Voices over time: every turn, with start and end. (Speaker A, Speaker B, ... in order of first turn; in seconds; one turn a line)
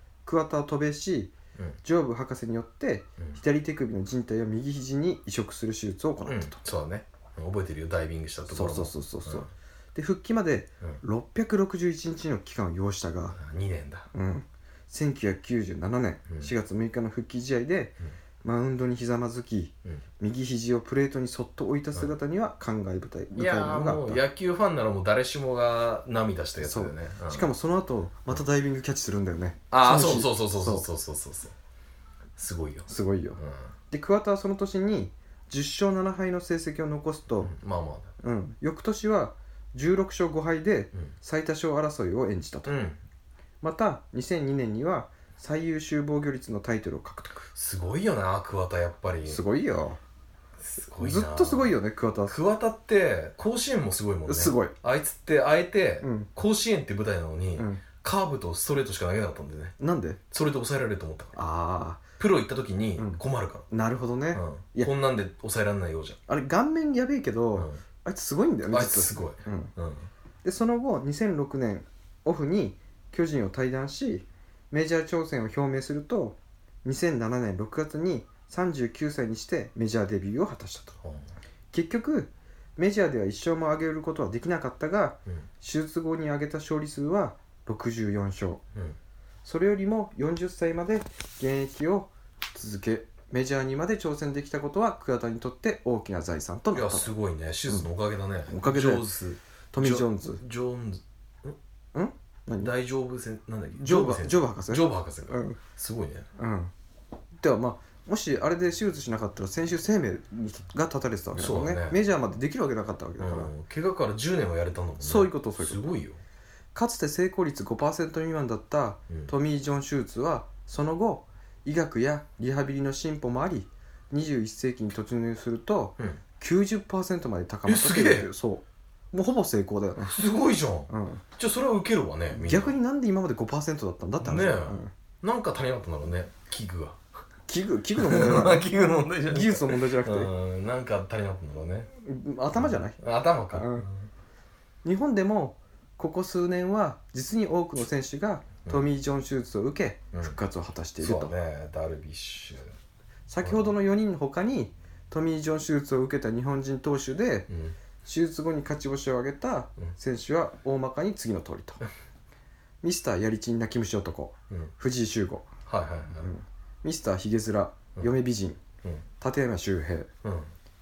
Speaker A: 0.2-1.3
Speaker A: 1.8-6.6
Speaker B: 6.2-9.5
Speaker A: 8.5-13.4
Speaker B: 13.3-14.1
Speaker A: 14.1-24.2
Speaker B: 23.4-27.5
Speaker A: 26.6-30.8
Speaker B: 29.7-31.5
Speaker B: 32.4-33.7
Speaker A: 32.9-33.4
Speaker A: 33.9-37.5
Speaker B: 37.4-38.1
Speaker A: 38.2-42.8
Speaker B: 42.6-43.0
Speaker A: 43.6-47.5
Speaker B: 47.5-49.4
Speaker A: 49.3-50.0
Speaker B: 50.6-51.8
Speaker A: 51.0-52.4
Speaker B: 52.3-59.7
Speaker A: 54.3-54.7
Speaker A: 56.0-56.3
Speaker A: 57.5-57.8
Speaker A: 59.8-60.2
Speaker B: 60.3-61.4
Speaker A: 61.3-62.0
Speaker B: 62.2-63.6
Speaker A: 63.0-64.9
Speaker B: 64.3-66.2
Speaker A: 66.3-69.7
Speaker B: 67.5-67.8
Speaker B: 68.7-70.1
Speaker A: 70.4-81.0
Speaker A: 81.7-88.6
Speaker A: 89.4-97.1
Speaker B: 96.7-101.6
Speaker A: 98.5-99.0
Speaker A: 99.7-100.4
Speaker A: 101.9-102.7
Speaker B: 102.6-106.3
Speaker A: 103.8-105.6
Speaker A: 106.4-106.7
Speaker A: 107.4-113.5
Speaker B: 111.3-112.0
Speaker B: 113.2-116.2
Speaker A: 115.0-115.8
Speaker A: 116.7-130.1
Speaker B: 127.7-128.3
Speaker B: 130.0-132.8
Speaker A: 130.9-131.2
Speaker A: 132.3-134.9
Speaker B: 134.2-137.0
Speaker A: 137.5-138.7
Speaker B: 138.0-141.9
Speaker A: 139.2-140.3
Speaker A: 142.0-143.0
Speaker B: 142.6-144.1
Speaker A: 143.5-143.8
Speaker A: 144.8-151.3
Speaker B: 151.0-152.7
Speaker A: 153.3-157.5
Speaker B: 153.4-153.7
Speaker B: 157.5-157.8
Speaker A: 158.0-161.8
Speaker A: 162.8-165.5
Speaker B: 165.7-166.3
Speaker A: 166.2-168.6
Speaker A: 169.2-170.1
Speaker B: 170.2-170.5